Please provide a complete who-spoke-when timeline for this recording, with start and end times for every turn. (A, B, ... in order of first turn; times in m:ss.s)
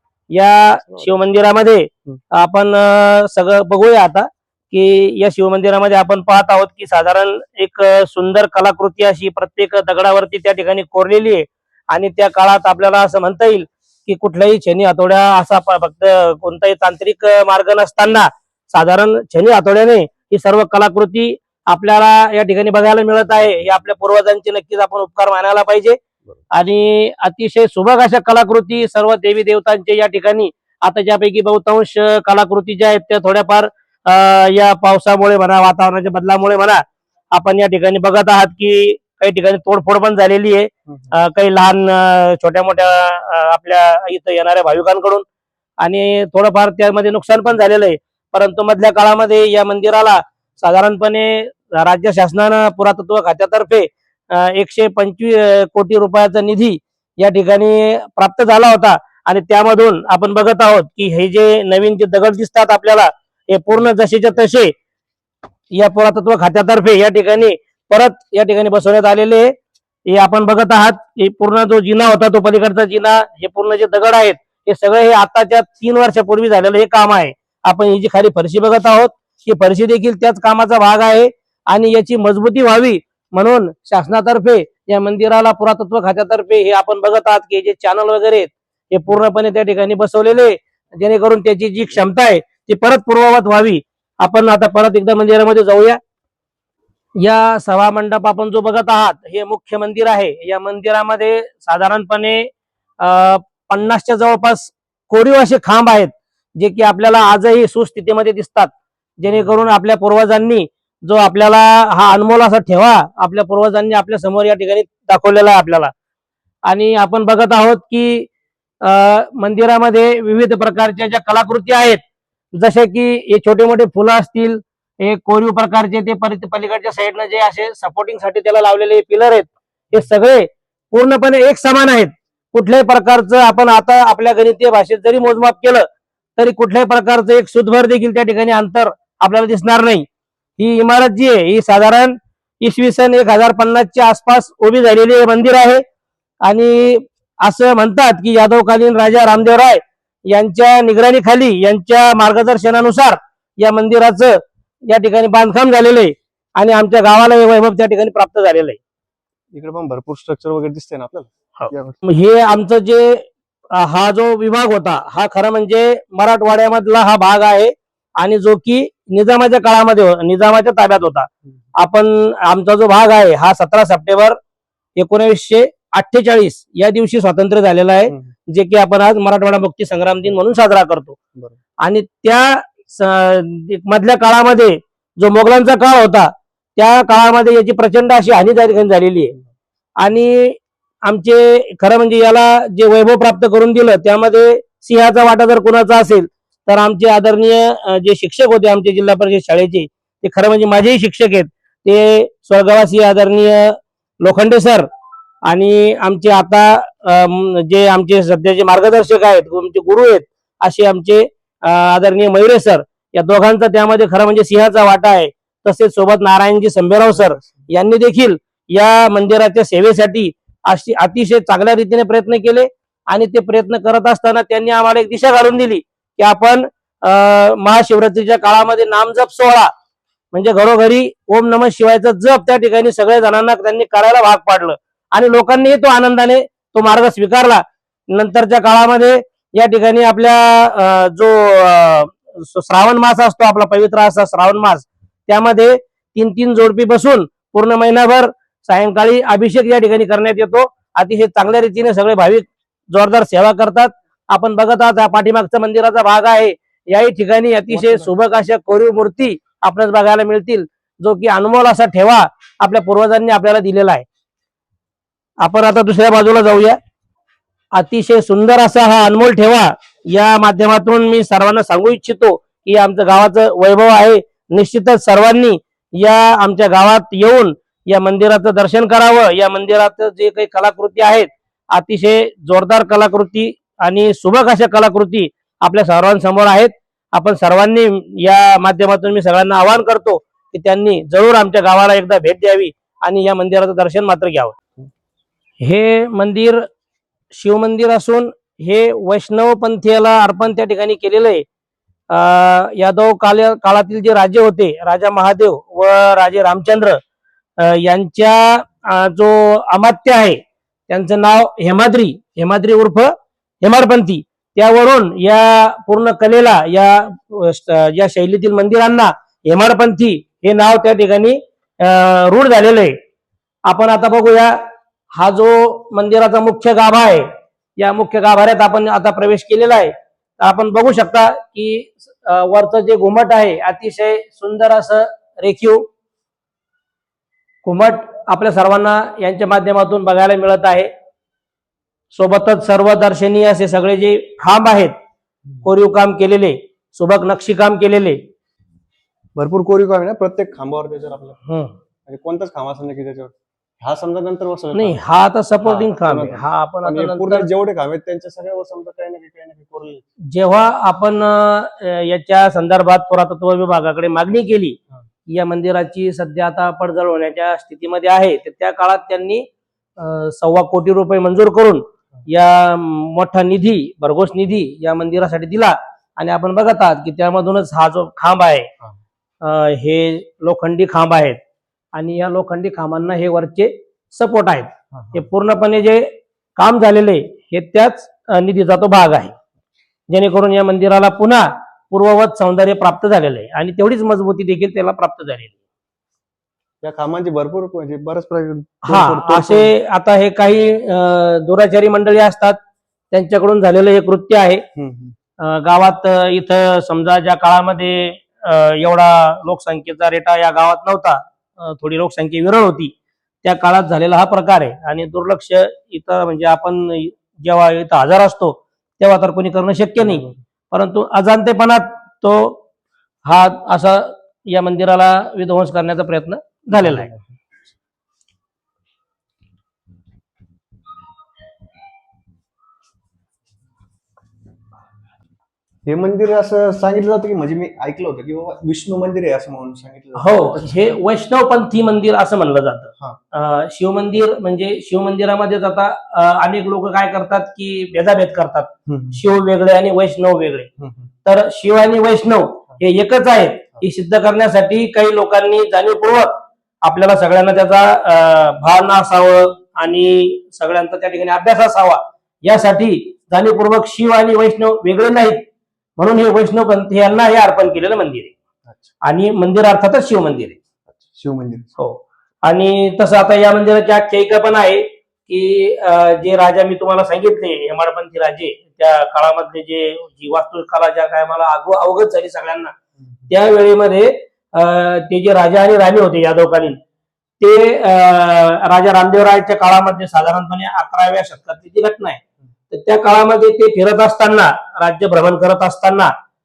0:00.3-0:26.0 A
0:26.5-0:45.2 A
0:45.8-1:04.7 A
1:05.7-1:09.5 A
1:10.0-1:36.0 A
1:37.2-1:42.5 A
1:43.0-1:55.9 A
1:56.6-1:58.3 A
1:58.8-2:02.0 A
2:02.5-2:15.8 A
2:16.4-2:20.0 A
2:20.6-2:25.8 A
2:26.4-2:38.8 A
2:39.5-2:42.0 B
2:41.6-2:54.4 A
2:55.0-3:01.2 A
3:01.8-3:09.3 A
3:10.0-3:24.9 A
3:25.4-3:49.7 A
3:50.3-4:24.0 A
4:17.7-4:18.0 B
4:25.4-4:26.8 A
4:27.7-4:54.5 A
4:55.6-4:56.7 A
4:57.3-5:01.4 A
5:02.1-5:07.0 A
5:07.6-5:23.0 A
5:23.6-5:24.6 A
5:25.1-5:35.8 A
5:37.6-5:40.9 A
5:42.1-5:44.9 A
5:45.6-5:48.2 A
5:49.4-5:51.4 B
5:51.4-5:51.8 A
5:52.1-5:55.0 B
5:54.7-5:57.5 A
5:55.6-6:00.0 B
6:00.3-6:18.7 A
6:19.4-6:21.4 A
6:21.9-6:29.3 A
6:24.9-6:25.2 B
6:30.1-6:35.6 A
6:36.8-6:39.7 B
6:38.8-6:42.6 A
6:43.1-6:44.6 A
6:44.8-6:45.1 B
6:45.4-7:02.6 A
7:00.0-7:00.3 B
7:03.2-7:07.1 A
7:06.7-7:07.2 B
7:15.9-7:20.8 B
7:20.1-7:30.7 A
7:28.9-7:29.2 B
7:30.8-7:31.0 B
7:31.2-7:36.3 A
7:36.8-7:45.4 A
7:46.0-7:48.3 A
7:49.0-7:50.6 A
7:50.9-7:51.7 B
7:51.8-8:02.7 A
8:03.3-8:06.8 A
8:07.4-8:16.1 A